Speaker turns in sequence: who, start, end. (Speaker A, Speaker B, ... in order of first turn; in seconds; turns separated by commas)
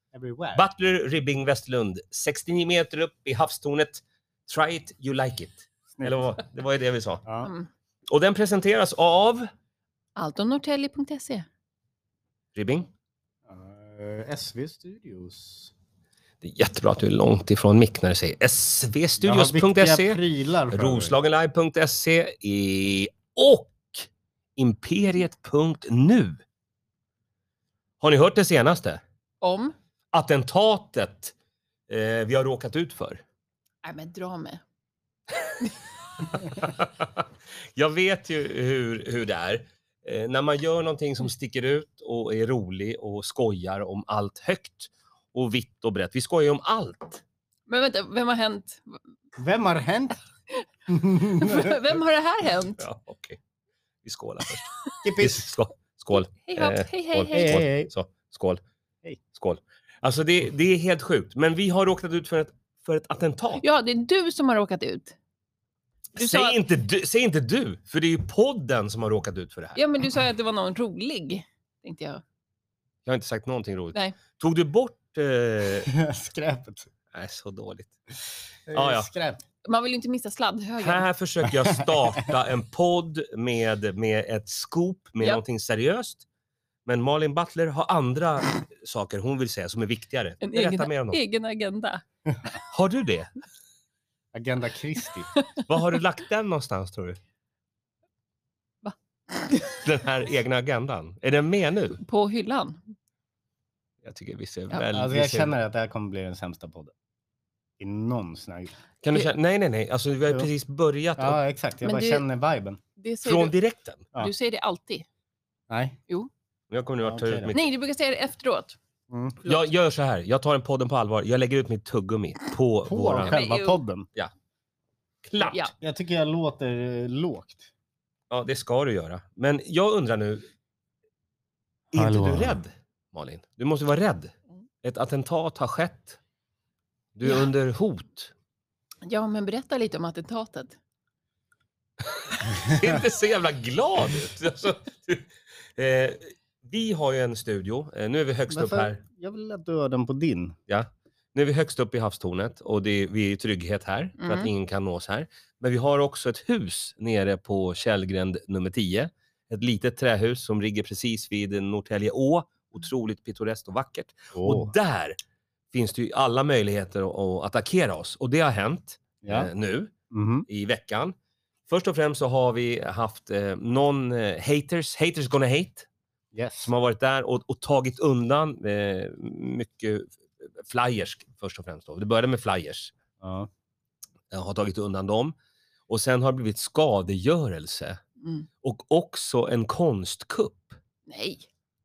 Speaker A: 0.1-0.6, Speaker B: 0.5-7.2, Speaker A: 5.9-6.3, Speaker A: 7.2-7.5, Speaker C: 7.4-7.7, Speaker B: 8.1-9.5, Speaker C: 10.2-11.4, Speaker B: 12.5-12.9, Speaker A: 13.5-15.7, Speaker B: 16.4-26.4, Speaker A: 19.2-21.1, Speaker B: 28.0-29.0, Speaker C: 29.4-29.7, Speaker B: 30.1-31.3, Speaker B: 31.9-33.2, Speaker C: 33.8-34.6, Speaker B: 36.3-37.2, Speaker B: 37.7-47.2, Speaker C: 47.7-49.0, Speaker A: 49.4-50.2, Speaker A: 50.9-51.8, Speaker C: 51.3-52.8, Speaker B: 52.8-53.4, Speaker B: 54.0-54.6, Speaker A: 55.0-55.5, Speaker B: 55.2-58.6, Speaker C: 56.3-57.6, Speaker A: 57.3-57.9, Speaker B: 59.3-63.6, Speaker C: 63.6-65.2, Speaker B: 66.2-69.8, Speaker C: 66.2-66.6, Speaker C: 69.8-72.2, Speaker B: 73.0-75.9, Speaker A: 75.8-76.9, Speaker B: 77.1-77.9, Speaker A: 78.7-79.4, Speaker B: 78.7-79.1, Speaker C: 79.6-81.1, Speaker B: 80.8-86.2, Speaker A: 81.7-82.3, Speaker B: 86.8-91.2, Speaker C: 90.4-92.0, Speaker B: 92.7-93.3, Speaker A: 94.3-95.3, Speaker C: 95.3-95.6, Speaker B: 95.7-97.2, Speaker C: 98.8-99.8, Speaker B: 99.8-102.0, Speaker C: 102.0-102.8, Speaker B: 104.0-105.5, Speaker A: 104.9-106.9, Speaker A: 107.8-108.7, Speaker B: 109.0-111.4, Speaker A: 111.2-112.8, Speaker C: 111.8-112.2, Speaker C: 113.0-113.5, Speaker B: 113.2-114.1, Speaker C: 114.2-115.0, Speaker A: 115.7-116.0, Speaker B: 116.7-117.6, Speaker A: 117.0-117.5, Speaker C: 117.5-118.8, Speaker A: 119.1-119.4, Speaker B: 119.4-123.4, Speaker A: 122.9-124.1, Speaker C: 123.2-123.8, Speaker B: 125.2-125.7, Speaker A: 125.8-127.7, Speaker B: 128.3-130.5, Speaker A: 131.9-132.6, Speaker B: 131.9-136.2, Speaker B: 137.1-138.3, Speaker C: 139.1-140.8, Speaker B: 142.1-149.0, Speaker A: 148.5-150.6, Speaker B: 150.7-165.2, Speaker C: 154.2-154.5, Speaker A: 164.3-164.7, Speaker B: 165.7-169.9, Speaker A: 169.2-169.5, Speaker A: 170.1-170.5, Speaker B: 170.5-171.1, Speaker B: 171.7-175.9, Speaker A: 176.3-176.7, Speaker B: 176.6-182.9, Speaker A: 183.2-183.5, Speaker B: 184.3-185.3, Speaker B: 185.9-188.0, Speaker C: 188.2-188.5, Speaker B: 188.6-190.8, Speaker C: 191.1-191.4